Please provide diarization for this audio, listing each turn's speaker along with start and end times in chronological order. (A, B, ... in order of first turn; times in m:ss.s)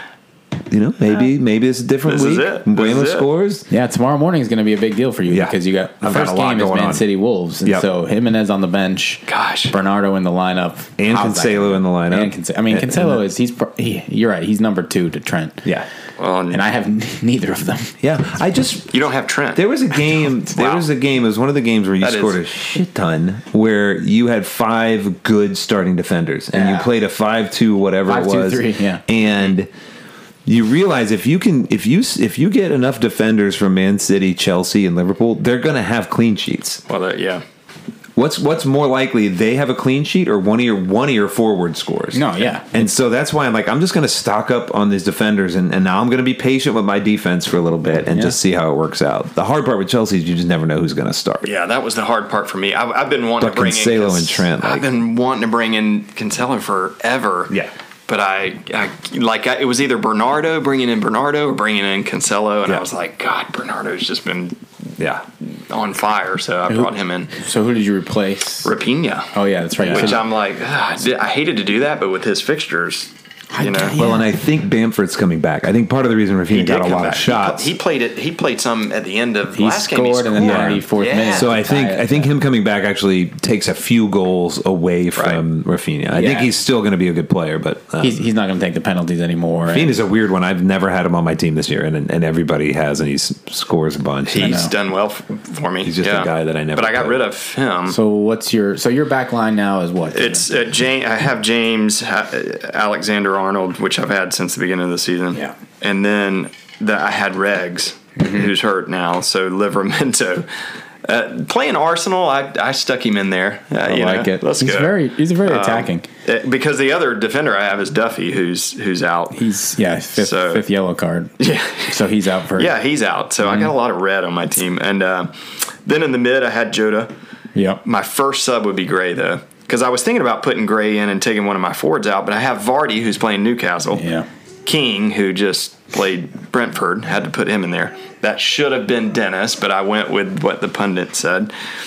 0:00.7-0:03.6 A
0:02.0-0:03.3 B
0:03.7-0:15.7 C
0:05.3-0:07.0 A
0:09.3-0:09.7 B
0:11.0-0:13.2 A
0:16.2-0:16.6 B
0:16.5-0:18.0 C
0:18.0-0:18.9 A
0:18.9-0:19.6 B
0:19.6-0:29.7 A
0:20.5-0:20.9 B
0:22.0-0:22.4 B
0:26.5-0:26.9 C
0:28.0-0:29.0 C
0:30.4-0:36.8 A
0:36.9-0:37.4 B
0:38.2-0:51.5 A
0:42.1-0:42.9 C
0:48.1-0:48.4 C
0:51.4-0:57.6 B
0:53.4-0:54.9 A
0:58.1-1:04.6 B
1:05.0-1:05.2 A
1:05.4-1:07.3 B
1:06.7-1:08.7 C
1:08.6-1:09.3 B
1:09.3-1:10.2 C
1:09.8-1:10.2 A
1:09.9-1:14.0 B
1:13.5-1:14.3 C
1:14.0-1:17.7 A
1:16.5-1:21.6 B
1:19.5-1:22.3 C
1:20.4-1:28.3 A
1:25.2-1:25.4 B
1:26.1-1:26.5 C
1:28.0-1:30.0 C
1:29.7-1:34.6 A
1:34.3-1:38.0 B
1:34.4-1:34.7 C
1:35.8-1:37.2 A
1:37.9-1:40.5 C
1:40.1-1:50.4 B
1:48.2-1:48.4 C
1:51.0-1:59.4 B
1:53.8-1:56.1 C
1:59.3-2:01.3 C
2:00.2-2:00.6 B
2:01.4-2:05.3 B
2:01.9-2:02.8 C
2:03.4-2:03.7 C
2:05.8-2:07.1 B
2:07.6-2:07.8 C
2:07.8-2:14.1 B
2:13.9-2:14.3 C
2:14.6-2:21.5 B